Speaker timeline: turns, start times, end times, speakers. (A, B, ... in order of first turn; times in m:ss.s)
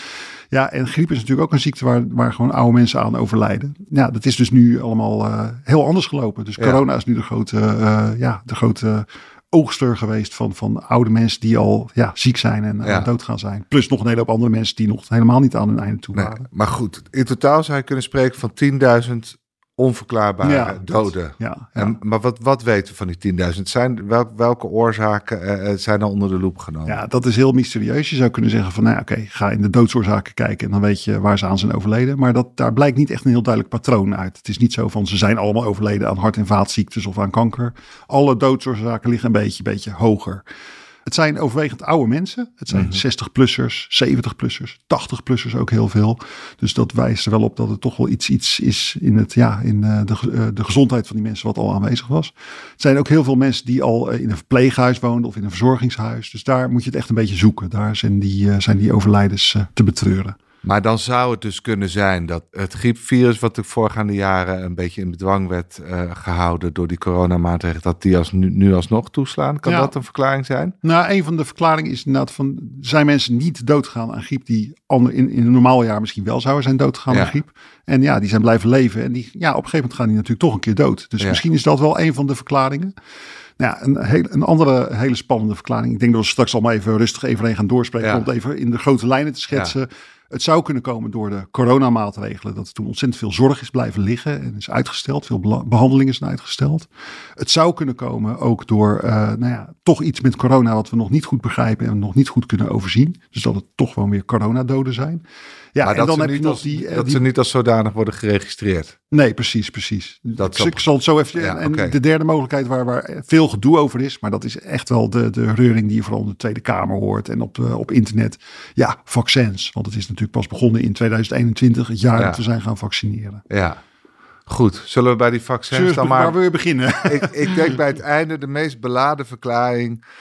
0:00.5-0:16.5 A
0:12.8-0:13.1 B
0:16.2-0:27.0 B
0:20.4-0:21.9 A
0:26.9-0:40.4 A
0:41.1-1:00.4 A
0:42.7-0:43.0 B
1:00.6-1:10.7 B
1:09.6-1:09.9 A
1:10.8-1:22.9 A
1:23.6-1:45.2 A
1:28.0-1:28.3 B
1:45.8-1:47.2 A
1:45.8-1:48.9 B
1:49.1-2:03.4 A
1:50.4-1:50.8 B
1:51.3-1:52.0 B
2:03.5-2:03.8 B
2:04.5-2:06.3 B
2:05.7-2:07.8 A
2:07.1-2:10.0 B